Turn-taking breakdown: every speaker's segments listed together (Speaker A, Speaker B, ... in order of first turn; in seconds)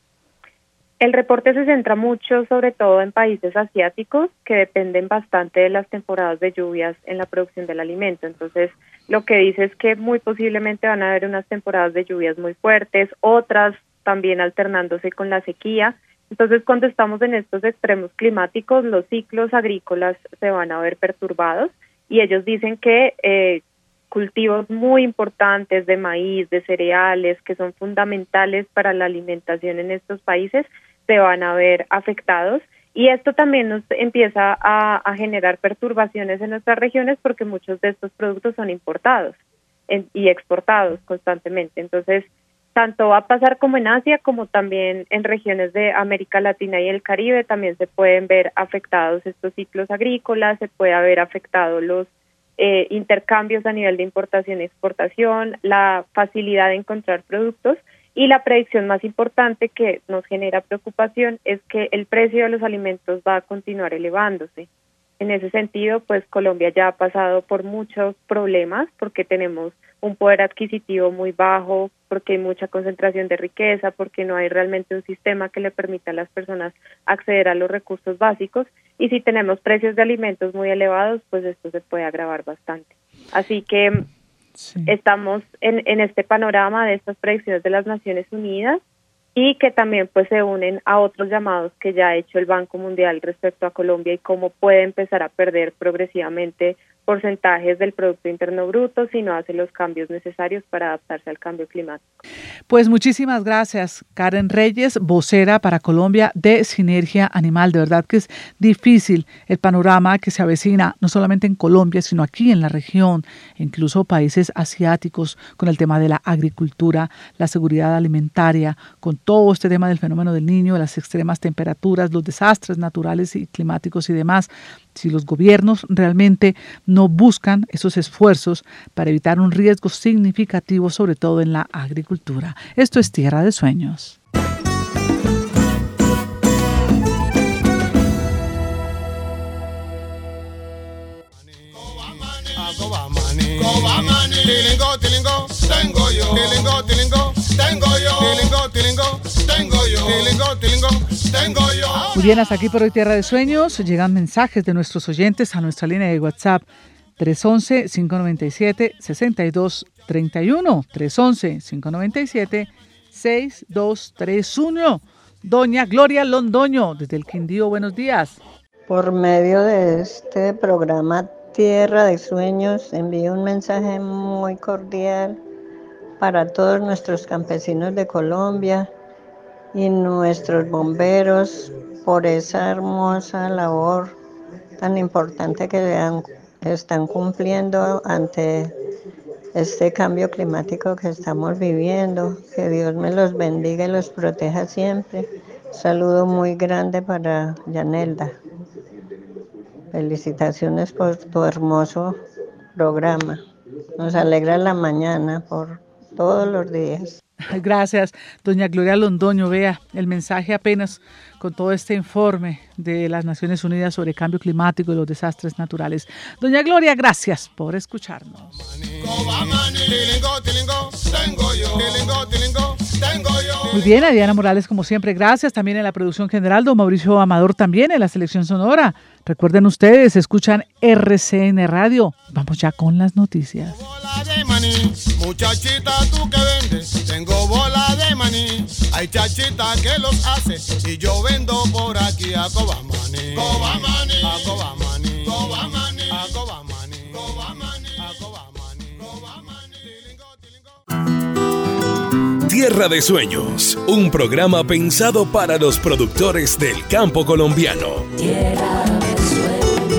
Speaker A: 1.0-39.4, 39.9-64.7, 65.2-84.0, 84.9-88.8, 89.3-102.2
Speaker B: 84.6-84.9, 102.7-134.2, 152.1-156.7, 157.2-168.4, 207.5-218.5, 223.7-233.8
Speaker C: 141.5-152.2, 218.8-224.0, 233.6-250.8
Speaker D: 168.9-175.4, 176.2-178.9, 179.7-184.2, 184.8-188.7, 189.6-198.3, 199.9-202.2, 202.8-203.4, 204.0-207.2
Speaker E: 252.4-258.4